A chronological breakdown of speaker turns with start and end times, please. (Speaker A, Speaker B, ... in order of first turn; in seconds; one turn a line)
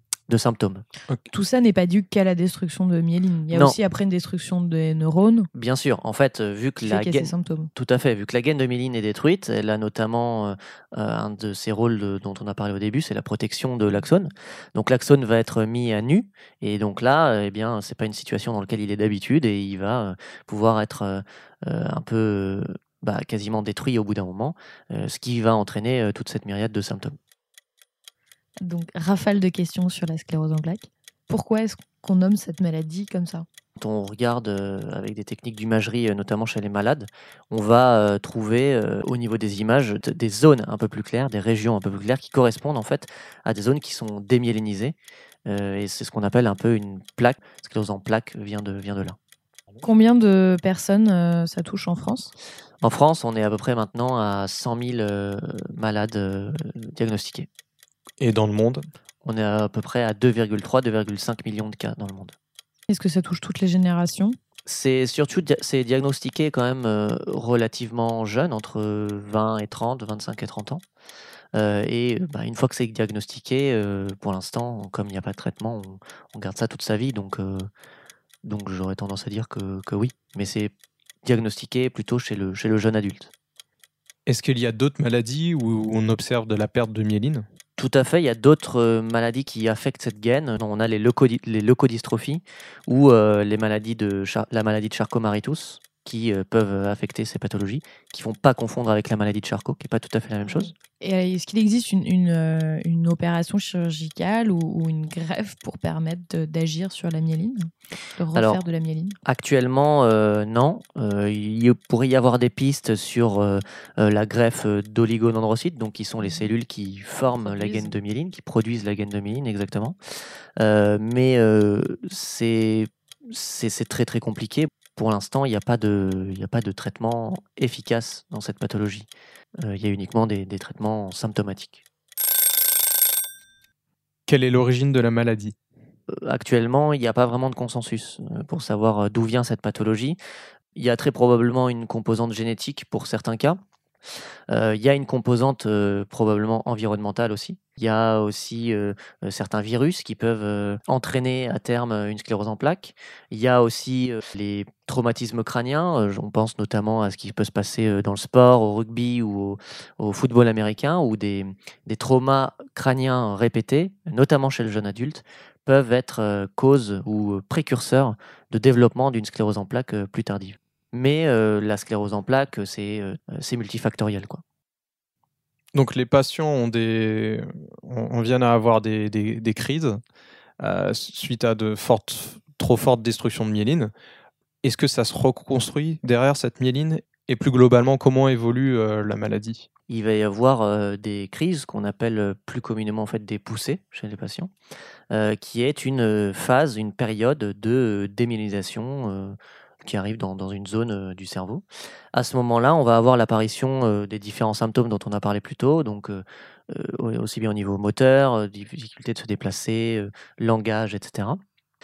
Speaker A: 0.3-0.8
Speaker B: 1.3-5.5
Speaker A: 3.5-3.8
Speaker A: 5.5-27.2
Speaker B: 6.8-7.7
Speaker B: 28.6-33.5
Speaker A: 33.8-44.9
Speaker A: 45.5-49.2
Speaker B: 49.8-52.3
Speaker A: 52.8-57.5
Speaker C: 58.2-58.9
Speaker A: 59.2-62.3
Speaker B: 62.9-64.4
Speaker A: 64.7-70.8
Speaker A: 71.5-77.7
Speaker A: 78.4-83.3
Speaker C: 84.2-87.5
Speaker A: 87.8-100.7
Speaker B: 100.4-109.2
Speaker A: 108.3-108.6
Speaker A: 109.2-120.0
Speaker B: 116.2-116.5
Speaker B: 117.4-118.0
Speaker A: 120.6-129.1
Speaker A: 129.6-131.8
Speaker C: 134.3-135.6
Speaker A: 136.1-140.2
Speaker A: 140.8-143.6
Speaker A: 144.5-174.4
Speaker C: 175.7-180.0
Speaker C: 180.6-183.9
Speaker C: 184.6-189.7
Speaker A: 189.9-194.5
Speaker A: 195.1-211.4